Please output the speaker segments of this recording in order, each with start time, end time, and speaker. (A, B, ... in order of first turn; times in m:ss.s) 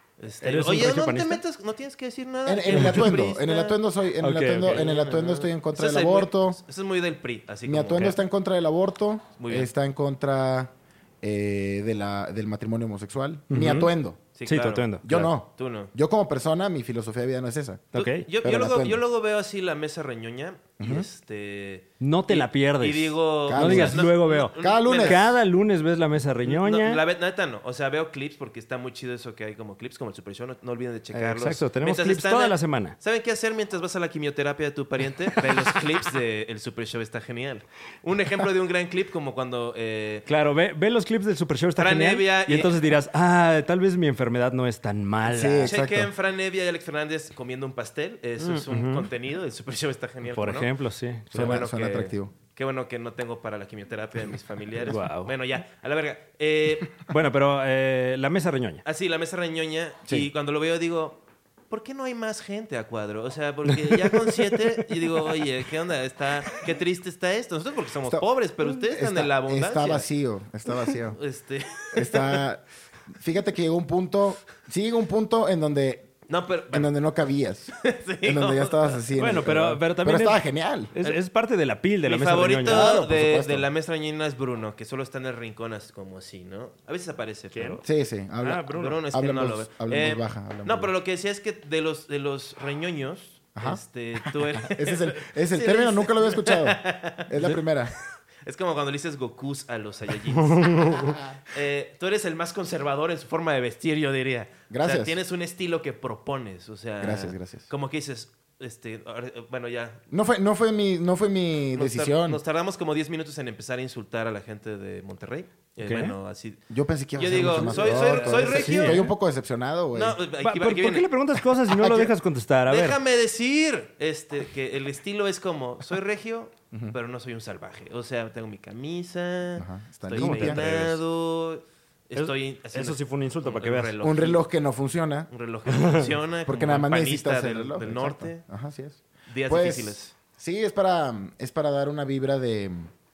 0:00.2-0:03.8 A
0:00.4-0:01.4 B
0:02.4-0:06.6 C
0:04.2-0:04.8 B
0:04.6-0:08.1 A
0:07.7-0:14.2 C
0:09.4-0:09.7 A
0:13.5-0:13.9 B
0:14.4-0:15.0 A
0:14.5-0:15.3 B
0:15.0-0:17.9 C
0:15.6-0:15.9 A
0:17.9-0:18.3 B
0:18.0-0:25.4 A
0:18.4-0:19.0 C
0:20.8-0:21.1 C
0:22.0-0:27.0 B
0:23.5-0:25.2 C
0:26.4-0:40.3 A
0:31.1-0:33.0 B
0:40.3-0:45.7 B
0:41.8-0:42.8 A
0:45.2-0:46.1 C
0:45.6-0:50.7 A
0:48.4-0:49.1 B
0:50.3-0:51.6 B
0:51.3-0:52.3 C
0:51.4-0:57.0 A
0:54.8-0:55.3 B
0:56.9-0:58.8 B
0:58.8-1:10.1 A
1:03.9-1:04.4 B
1:08.1-1:11.2 C
1:11.1-1:12.4 A
1:11.9-1:16.1 C
1:16.3-1:16.9 A
1:16.7-1:20.9 C
1:17.8-1:19.0 A
1:19.2-1:23.0 B
1:22.0-1:27.8 A
1:22.7-1:23.7 C
1:27.5-1:27.8 B
1:27.8-1:30.9 C
1:28.4-1:29.0 B
1:28.7-1:37.3 A
1:33.6-1:33.8 C
1:34.6-1:37.9 C
1:38.4-1:50.0 A
1:40.4-1:41.2 B
1:44.7-1:45.2 C
1:47.0-1:47.7 C
1:50.1-1:52.4 C
1:51.8-1:56.6 A
1:55.8-1:56.2 B
1:56.7-2:00.2 C
1:57.2-1:59.1 A
1:57.4-1:59.1 B
1:59.9-2:02.1 A
2:00.4-2:03.0 B
2:02.7-2:14.4 A
2:09.6-2:10.7 C
2:10.2-2:11.0 B
2:12.2-2:13.9 B
2:14.0-2:15.3 C
2:15.3-2:18.4 A
2:15.7-2:16.1 B
2:16.5-2:22.9 C
2:19.3-2:20.1 A